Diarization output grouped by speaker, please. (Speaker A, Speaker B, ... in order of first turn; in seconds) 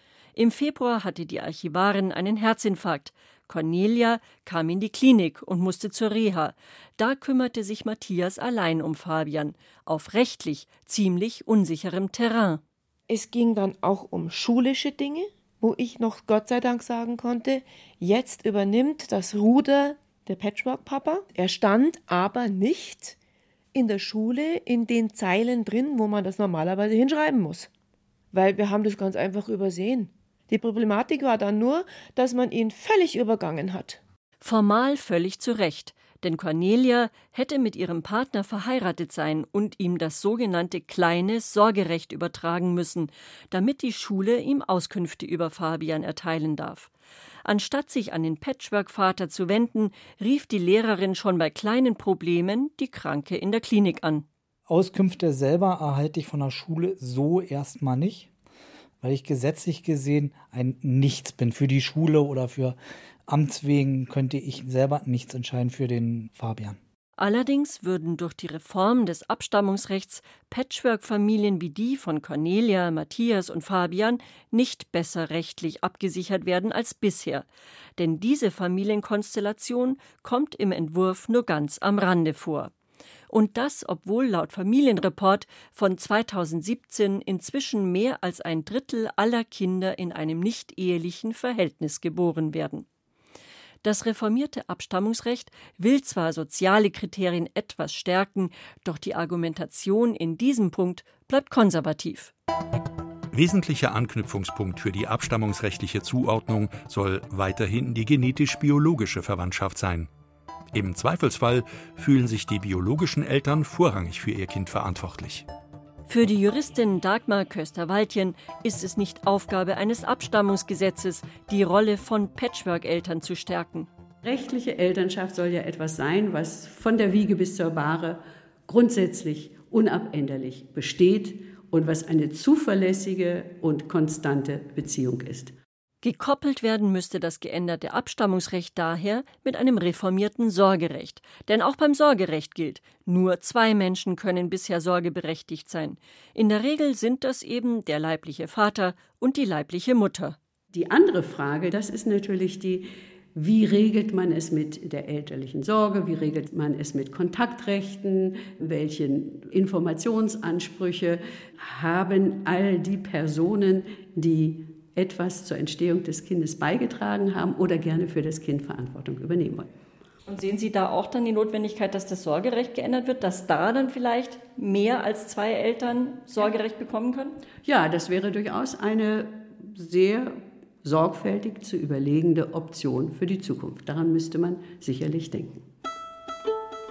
Speaker A: 0.3-12.6, 34.4-46.9, 47.4-54.2, 67.2-82.7, 83.3-92.8, 93.8-102.3, 116.1-123.9, 136.0-150.4, 170.3-177.3
Speaker B: 13.1-23.1, 23.7-27.7, 28.3-34.0
Speaker C: 54.7-58.3, 59.0-62.8, 63.3-66.8
Speaker D: 103.3-110.1, 110.7-115.4
Speaker E: 124.2-135.5, 150.7-169.7, 177.6-185.6